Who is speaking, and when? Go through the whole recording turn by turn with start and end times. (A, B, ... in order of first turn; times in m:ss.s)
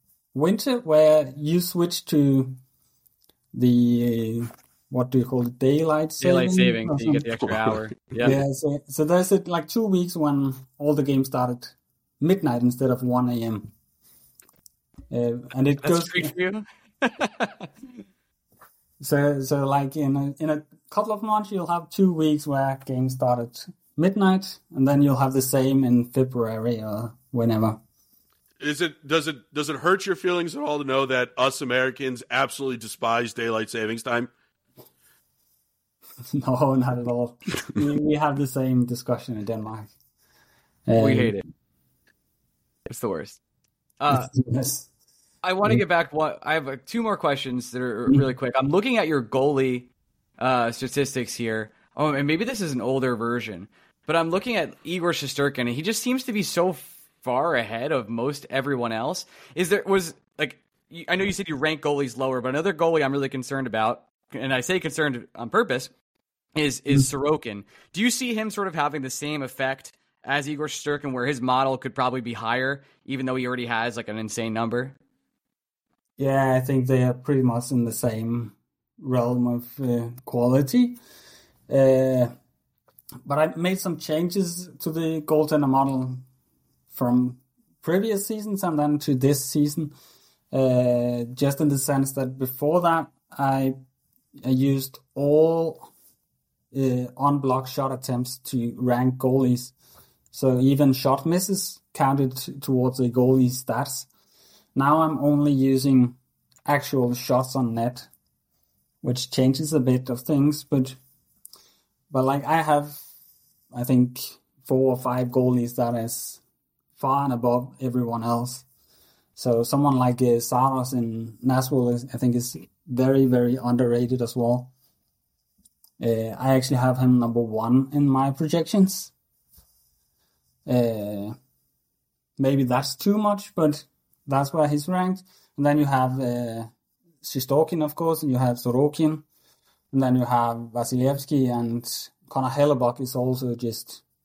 0:00.3-0:02.6 A
0:03.5-0:07.2 A
0:06.2-0:08.4 B
0:08.2-0:13.7 A
0:15.1-0:16.3 A
0:15.8-0:17.7 B
0:19.0-0:27.8 A
0:28.6-0:34.3 C
0:36.3-0:39.9 A
0:40.9-0:41.4 A
0:41.0-0:41.5 B
0:42.9-0:43.4 B
0:44.0-0:44.3 B
0:44.1-0:44.9 A
0:45.4-1:05.9 B
1:06.6-1:15.0 B
1:16.2-1:21.0 A
1:21.7-1:22.3 A
1:23.2-1:26.2 A
1:26.9-1:29.9 A
1:30.5-1:33.8 A
1:34.4-1:35.9 A
1:36.7-1:39.7 A
1:40.3-1:44.1 A
1:44.8-1:48.1 A
1:49.0-1:51.0 A
1:52.1-1:53.0 A
1:53.7-1:56.4 A
1:57.0-1:58.6 A
1:59.4-2:04.7 A
2:06.0-2:09.1 A
2:10.7-2:11.4 A
2:12.4-2:16.7 A
2:17.2-2:19.2 A
2:19.9-2:24.0 A